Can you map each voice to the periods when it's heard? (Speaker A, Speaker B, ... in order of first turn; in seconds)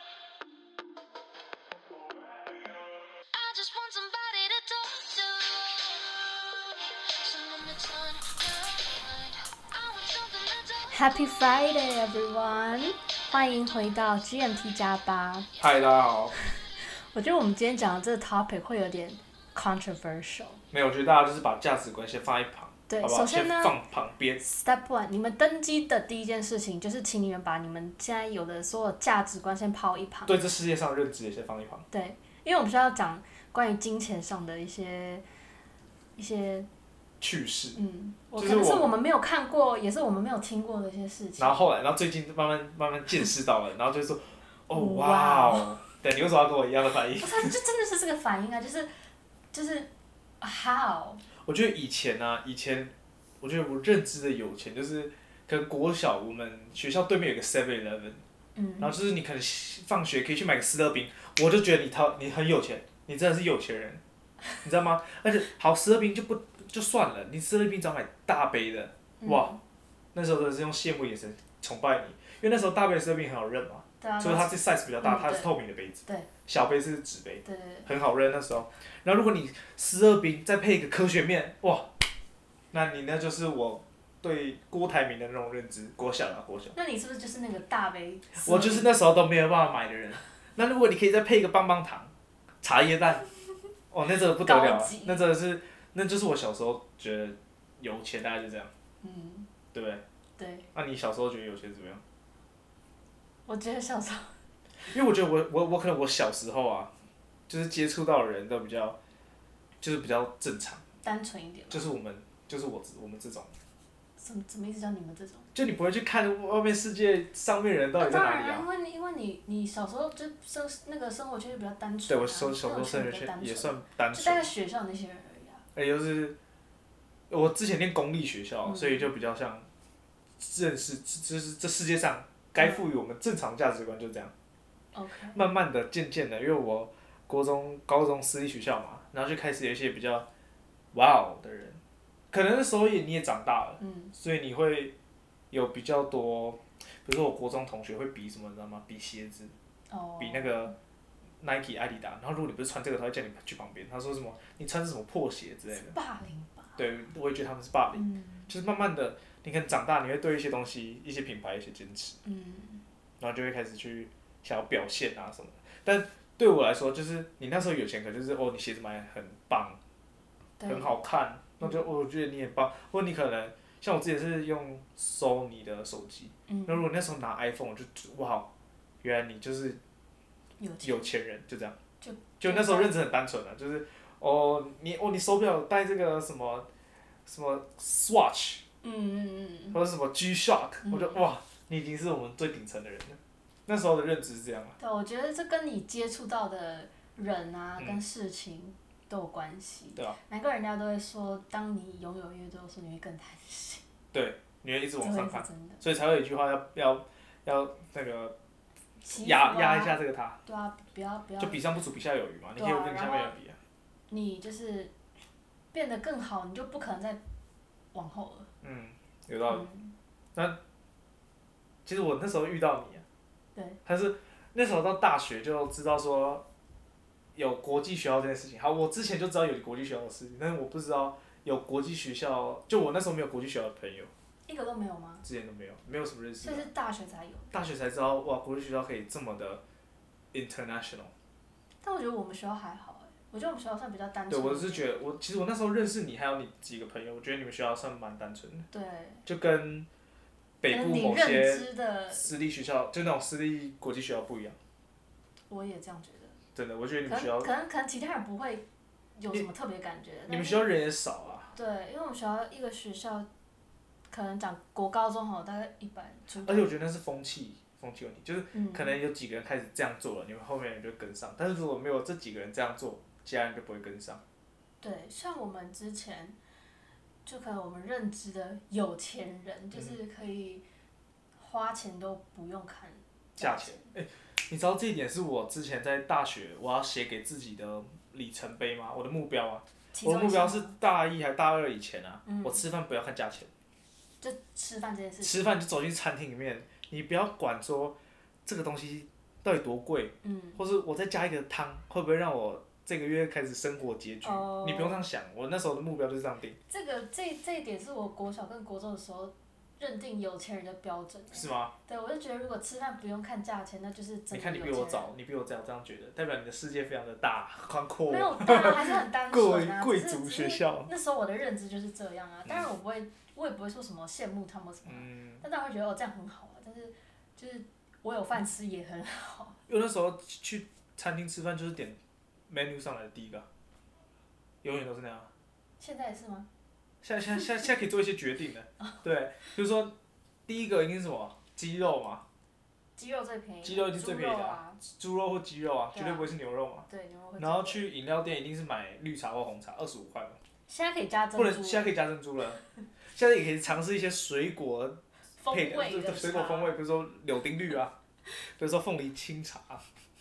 Speaker A: 3.3-5.9, 7.1-11.3
Speaker B: 10.9-15.5, 16.3-20.6, 22.9-23.8, 24.4-30.5, 31.9-35.2, 36.1-36.7, 37.7-41.6, 44.7-45.8, 47.2-48.9, 49.5-51.2, 58.5-59.0, 69.2-69.6, 74.0-75.5, 77.4-77.9, 86.7-88.9, 94.4-95.2, 99.0-99.5, 100.4-100.7, 103.5-104.4, 111.0-111.9, 114.2-115.5, 118.0-125.6, 128.6-129.1, 132.6-132.8, 134.9-135.4, 143.8-144.1, 149.9-150.7, 155.7-156.8, 157.9-158.5, 162.2-162.8, 170.6-170.9, 176.5-176.8, 180.6-181.1, 182.0-182.9, 188.8-189.8, 190.8-191.2, 194.8-203.8, 205.0-205.8, 209.0-211.6, 212.6-213.3, 214.1-214.9, 215.7-217.2, 217.9-218.5, 219.4-219.9, 234.5-235.2, 236.4-237.6, 241.8-244.9, 248.7-249.2, 250.7-252.3, 255.5-256.4, 257.1-260.7, 261.5-263.3, 264.1-266.8, 268.5-268.9, 274.8-276.4, 277.2-280.6, 281.4-283.9, 289.9-290.7, 292.2-292.6, 294.2-295.4, 300.2-300.6, 304.2-305.0, 306.7-315.1, 318.1-329.6, 335.8-336.5, 342.9-344.8, 345.9-346.3, 346.9-347.8, 350.7-351.9, 355.4-356.8
Speaker C: 15.6-16.3, 20.7-24.4, 30.2-31.8, 37.2-37.8, 38.3-38.9, 41.4-47.5, 51.4-58.2, 58.8-64.0, 64.6-69.5, 70.1-81.9, 82.7-86.7, 88.3-93.2, 93.9-98.7, 99.7-100.0, 100.7-102.0, 104.8-106.9, 107.5-109.0, 109.8-110.8, 111.7-113.5, 115.5-118.7, 122.1-124.5, 125.7-126.3, 127.3-129.7, 130.4-134.3, 135.3-140.3, 140.9-141.8, 142.3-144.9, 145.5-149.5, 150.2-150.7, 151.4-155.9, 156.8-162.2, 163.2-169.8, 170.7-178.5, 179.0-179.8, 180.8-181.8, 182.4-186.7, 187.2-188.6, 189.7-194.8, 204.1-208.3, 209.1-210.4, 211.4-213.6, 218.6-219.7, 221.8-223.0, 223.8-226.4, 227.3-234.1, 235.2-236.7, 237.5-239.6, 240.3-241.1, 244.3-248.7, 249.2-249.9, 250.6-254.6, 256.5-257.5, 260.3-261.5, 266.4-274.2, 283.4-293.5, 295.2-306.6, 311.3-311.7, 314.3-320.9, 324.8-325.4, 329.7-333.5, 334.6-335.3, 337.0-342.2, 343.6-346.9, 347.4-350.4, 351.3-359.8